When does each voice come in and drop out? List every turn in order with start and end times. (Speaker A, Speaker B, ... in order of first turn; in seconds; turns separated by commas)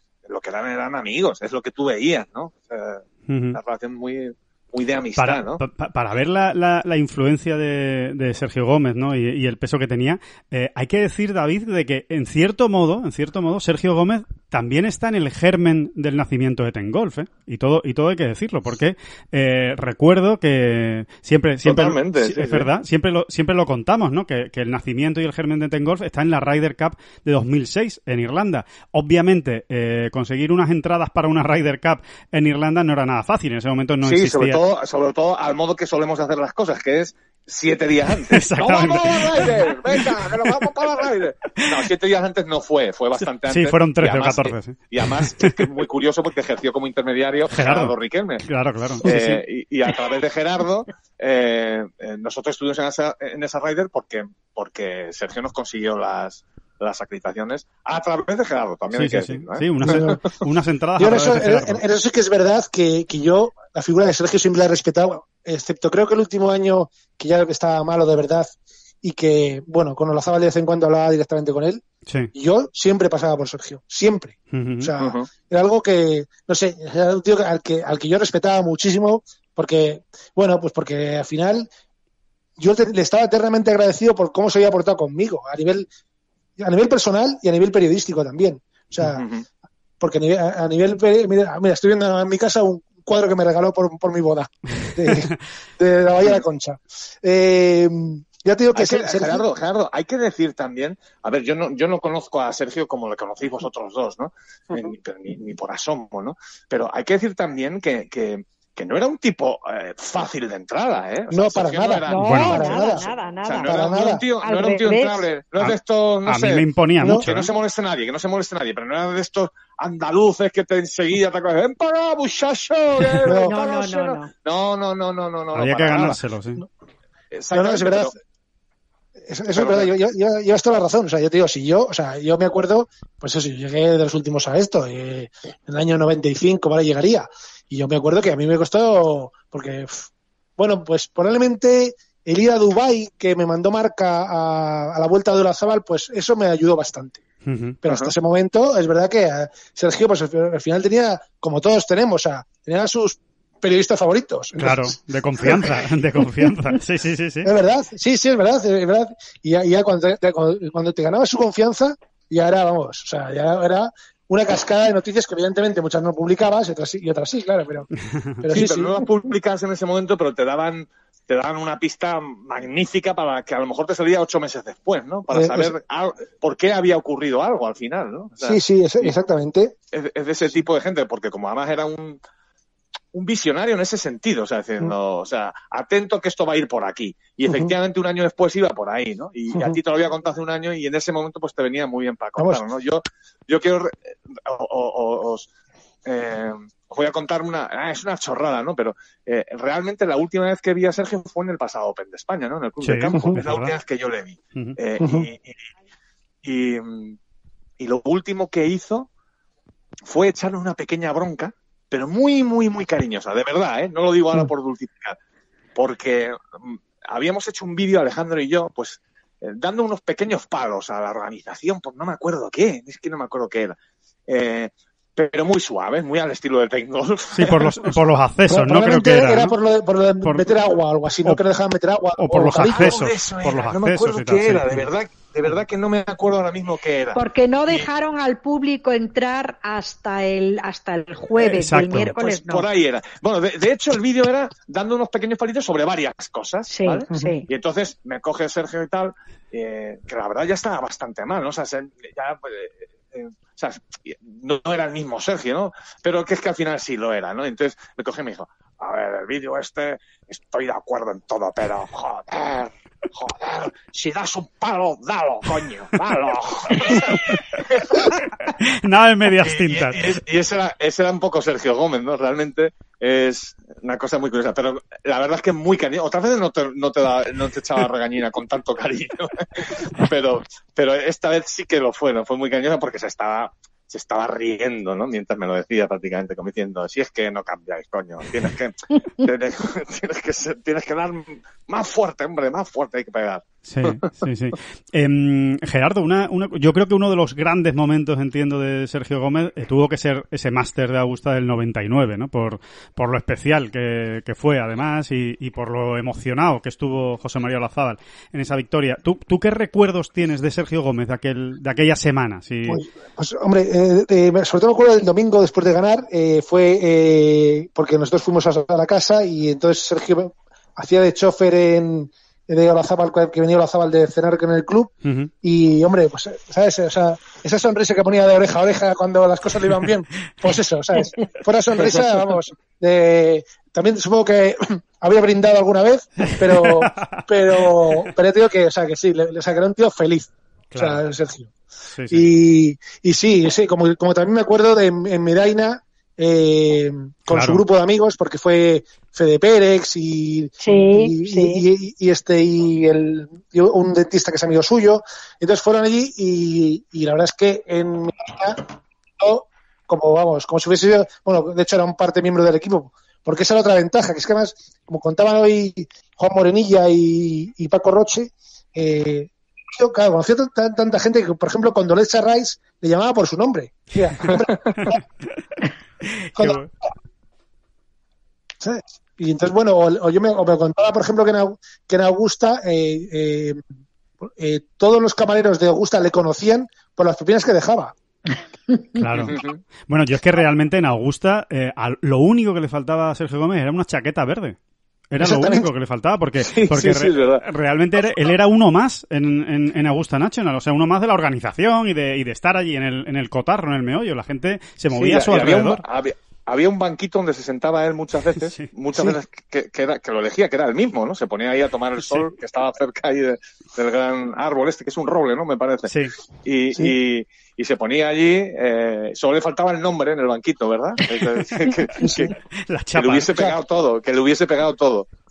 Speaker A: 0.2-5.6, Speaker B: 3.3-3.6, Speaker B: 5.2-34.6, Speaker A: 21.6-22.7, Speaker A: 34.0-48.4, Speaker B: 38.3-40.5, Speaker B: 43.5-45.5, Speaker B: 47.5-49.4, Speaker A: 49.0-60.1, Speaker B: 58.9-61.8, Speaker C: 59.8-60.2, Speaker C: 61.0-71.8, Speaker C: 72.3-81.7, Speaker B: 74.5-74.9, Speaker A: 75.0-75.3, Speaker C: 82.6-85.9, Speaker C: 86.6-89.2, Speaker A: 89.0-89.4, Speaker C: 90.0-99.4, Speaker A: 98.7-112.2, Speaker C: 111.3-113.1, Speaker D: 112.1-113.8, Speaker B: 112.2-112.7, Speaker A: 112.7-116.6, Speaker C: 113.6-114.2, Speaker D: 114.4-115.2, Speaker B: 115.6-117.5, Speaker C: 117.0-117.2, Speaker A: 117.2-126.2, Speaker C: 123.2-123.5, Speaker D: 123.3-124.3, Speaker B: 125.5-126.6, Speaker A: 127.3-128.1, Speaker C: 127.5-128.1, Speaker C: 129.2-147.2, Speaker A: 129.5-129.9, Speaker B: 147.4-147.8, Speaker C: 147.8-155.8, Speaker A: 147.8-148.1, Speaker B: 154.6-157.5, Speaker C: 157.4-167.9, Speaker C: 168.4-169.1, Speaker A: 168.5-179.1, Speaker C: 175.3-175.7, Speaker C: 178.4-179.7, Speaker A: 179.9-182.2, Speaker A: 183.1-195.5, Speaker C: 187.4-187.7, Speaker C: 192.4-192.6, Speaker A: 196.1-205.5, Speaker B: 202.8-203.7, Speaker C: 205.0-205.3, Speaker A: 206.4-207.2, Speaker A: 207.8-209.1, Speaker A: 210.1-215.2, Speaker A: 215.7-228.1, Speaker B: 227.3-229.5, Speaker C: 228.5-233.0, Speaker B: 232.2-234.8, Speaker A: 232.7-237.9, Speaker D: 237.1-242.6, Speaker B: 241.4-242.1, Speaker A: 242.2-268.2, Speaker D: 246.7-247.4, Speaker B: 268.6-270.2, Speaker A: 269.4-294.0, Speaker B: 293.6-312.8, Speaker C: 312.6-341.5, Speaker B: 325.0-325.3, Speaker B: 336.2-337.2, Speaker B: 340.7-341.0, Speaker B: 341.9-342.2, Speaker C: 342.1-358.6, Speaker B: 347.3-347.6, Speaker D: 350.6-351.6, Speaker C: 359.2-375.0, Speaker A: 374.3-374.9, Speaker B: 376.2-376.7, Speaker C: 376.4-376.6, Speaker C: 378.6-383.6, Speaker C: 384.2-387.9, Speaker B: 388.9-394.6, Speaker A: 389.2-389.6, Speaker B: 395.1-405.8, Speaker C: 395.2-395.7, Speaker A: 396.4-397.4, Speaker A: 404.9-415.9, Speaker B: 415.9-416.1, Speaker A: 416.4-422.3, Speaker C: 422.0-422.3, Speaker B: 422.7-423.5, Speaker A: 422.9-425.1